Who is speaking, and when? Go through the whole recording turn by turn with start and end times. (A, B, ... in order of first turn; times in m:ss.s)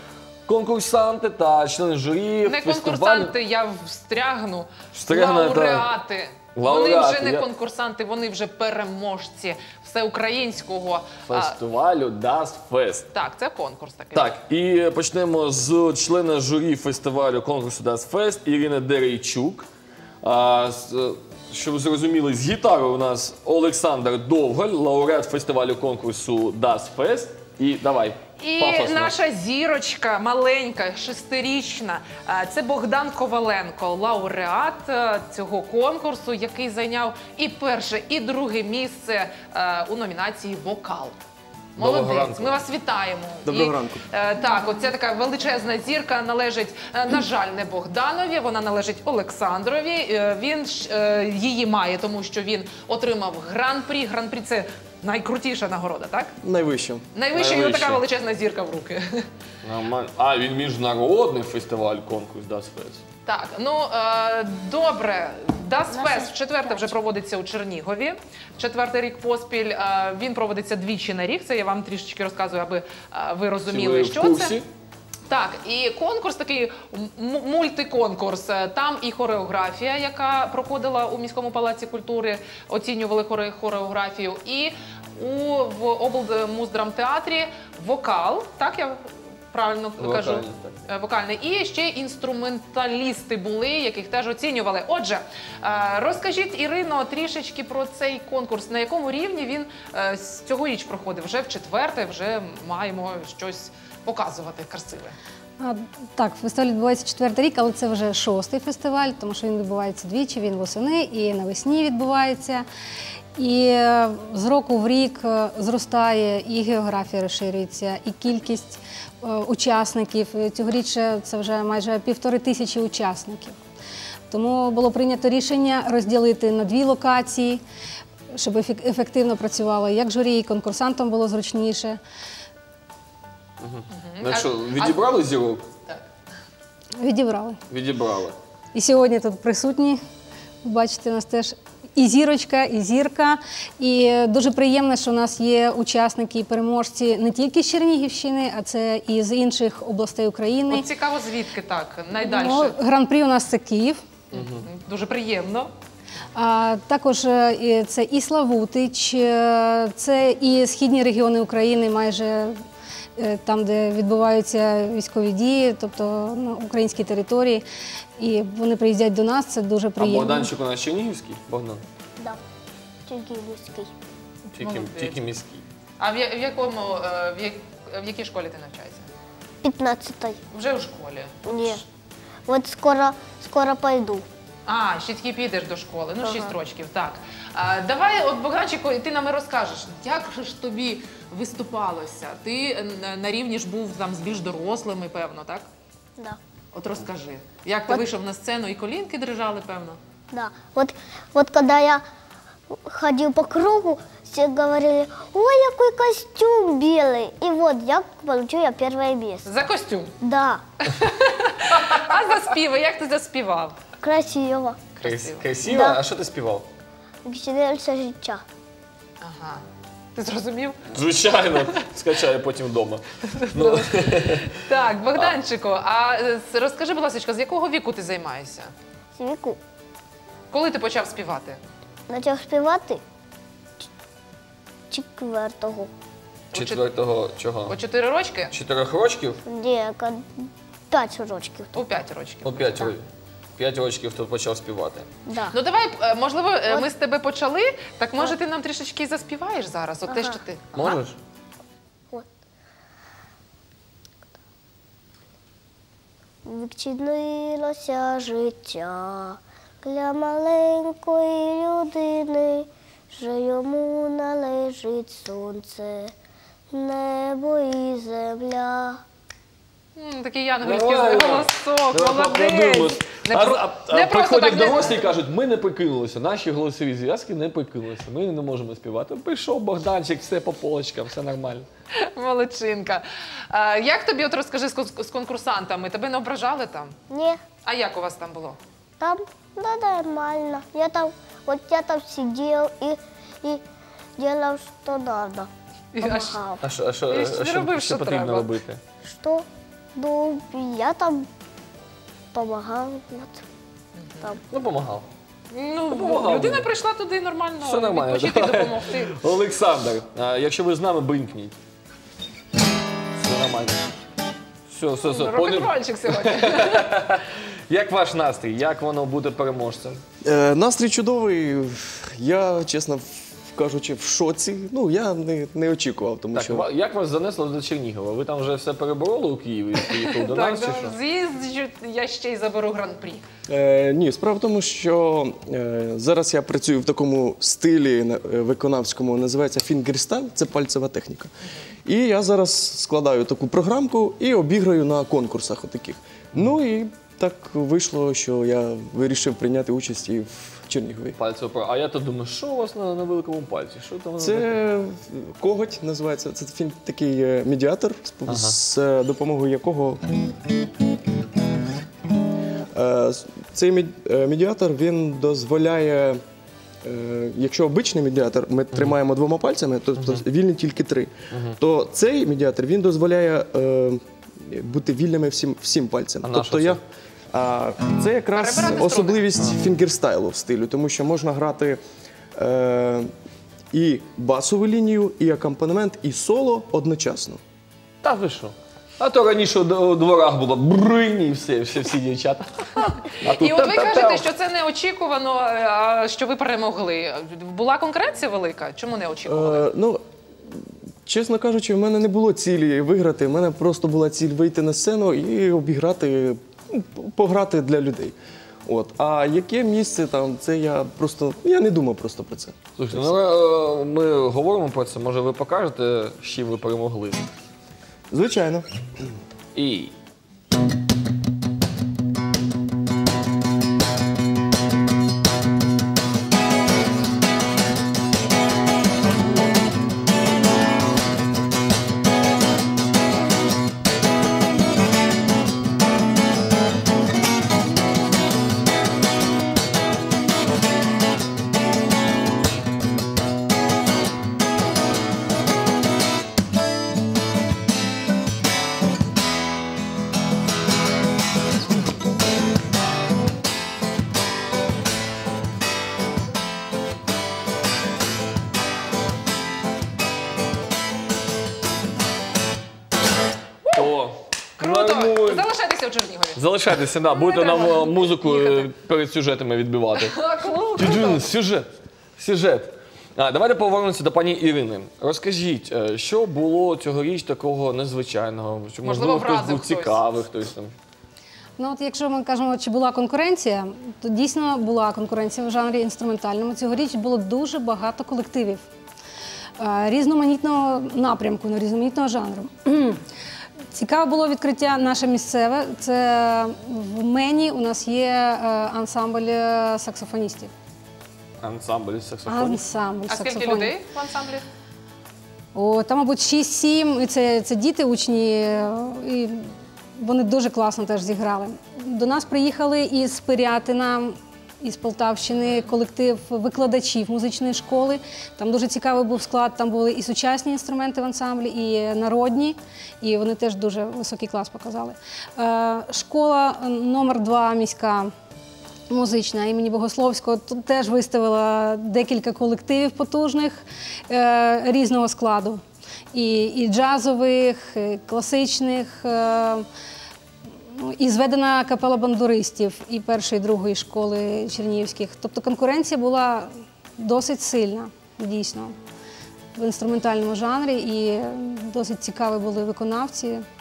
0:00.5-0:03.4 A
0:02.4-0:11.6 B
0:04.9-0:06.0 A
0:06.5-0:07.5 A
0:11.3-0:13.1 A
0:13.1-0:14.4 B
0:14.1-0:19.7 A
0:20.2-0:29.2 A
0:28.4-0:41.2 B
0:41.8-0:56.3 B
0:41.8-0:42.7 A
0:43.5-0:44.0 C
0:56.4-0:57.0 C
0:57.2-0:59.3 B
0:57.3-0:58.0 A
0:59.6-1:03.0 A
1:03.3-1:14.6 B
1:05.9-1:06.9 D
1:13.7-1:14.7 A
1:15.3-1:45.2 B
1:30.0-1:30.8 A
1:45.6-1:52.7 E
1:53.4-2:03.6 E
2:04.3-2:07.6 E
2:08.3-2:12.0 E
2:13.6-2:15.7 A
2:13.9-2:15.3 B
2:17.0-2:17.6 E
2:17.7-2:18.4 A
2:18.7-2:20.0 E
2:20.6-2:30.9 E
2:30.7-2:32.8 B
2:32.2-2:34.0 E
2:34.3-2:34.7 A
2:34.3-2:35.7 B
2:36.3-2:42.6 E
2:43.2-2:47.6 E
2:48.2-2:50.5 E
2:50.0-2:51.8 A
2:53.1-2:53.9 D
2:54.6-2:55.2 B
2:54.6-2:55.6 A
2:56.0-2:59.1 B
2:59.6-3:00.4 D
3:00.5-3:01.8 B
3:01.4-3:01.8 D
3:02.5-3:04.3 D
3:04.7-3:15.7 B
3:06.2-3:06.6 D
3:16.7-3:20.0 B
3:20.3-3:22.0 D
3:22.7-3:29.6 D
3:29.5-3:30.1 B
3:30.2-3:30.6 D
3:30.9-3:33.8 B
3:34.0-3:34.9 D
3:35.0-3:35.6 B
3:35.0-3:36.7 A
3:35.6-3:36.0 D
3:37.2-3:38.4 D
3:39.2-3:39.6 B
3:40.2-3:40.9 B
3:40.9-3:44.6 A
3:41.6-3:41.8 B
3:43.3-3:48.7 B
3:49.2-3:49.6 D
3:50.5-3:51.6 B
3:52.1-3:53.0 D
3:54.9-3:55.9 D
3:56.5-3:56.9 B
3:56.6-3:57.8 A
3:57.7-3:58.5 B
3:58.5-3:59.4 A
3:59.4-4:02.0 D
4:01.8-4:02.9 B
4:02.4-4:03.1 A
4:03.6-4:05.1 A
4:05.3-4:05.6 D
4:05.5-4:11.0 B
4:10.1-4:10.4 D
4:10.7-4:11.2 A
4:16.4-4:26.1 D
4:26.7-4:29.0 D
4:30.0-4:35.2 B
4:30.6-4:41.7 A
4:41.9-4:47.0 B
4:47.1-4:47.4 D
4:47.6-4:48.6 B
4:49.0-4:53.6 D
4:54.2-4:56.6 D
4:55.9-4:56.4 B
4:56.6-4:58.8 A
4:57.1-4:58.6 B
4:59.0-5:01.3 D
5:02.3-5:03.4 D
5:04.0-5:04.3 B
5:04.5-5:05.1 A
5:05.5-5:09.2 B
5:05.9-5:06.7 A
5:07.6-5:11.6 A
5:13.2-5:13.8 A
5:14.7-5:20.0 A
5:15.0-5:16.9 B
5:20.2-5:26.7 C
5:26.3-5:31.0 A
5:29.8-5:33.2 B
5:33.5-5:41.3 C
5:41.8-5:51.2 C
5:51.2-5:54.6 A
5:54.2-6:00.0 C
5:58.3-5:58.6 A
6:02.7-6:06.2 C
6:06.8-6:21.8 C
6:10.0-6:10.2 A
6:11.3-6:11.6 A
6:16.2-6:16.8 A
6:18.4-6:19.2 B
6:22.4-6:23.1 C
6:23.7-6:27.4 C
6:28.0-6:34.3 A
6:33.3-6:39.7 B
6:39.3-6:53.2 C
6:52.8-6:57.3 A
6:58.1-6:58.7 C
6:59.6-6:59.9 A
7:43.6-7:43.9 B
7:43.8-7:45.5 A
7:44.6-7:46.4 B
7:46.4-7:50.2 A
7:47.1-7:48.7 B
7:50.0-7:51.3 B
7:50.8-8:00.7 A
7:58.8-8:00.0 B
8:01.6-8:08.7 E
8:09.6-8:13.0 E
8:13.7-8:20.5 E
8:21.4-8:22.6 A
8:22.3-8:23.7 E
8:23.1-8:24.5 B
8:25.5-8:48.1 E
8:48.9-8:59.7 E
9:00.7-9:08.8 E
9:09.6-9:13.4 E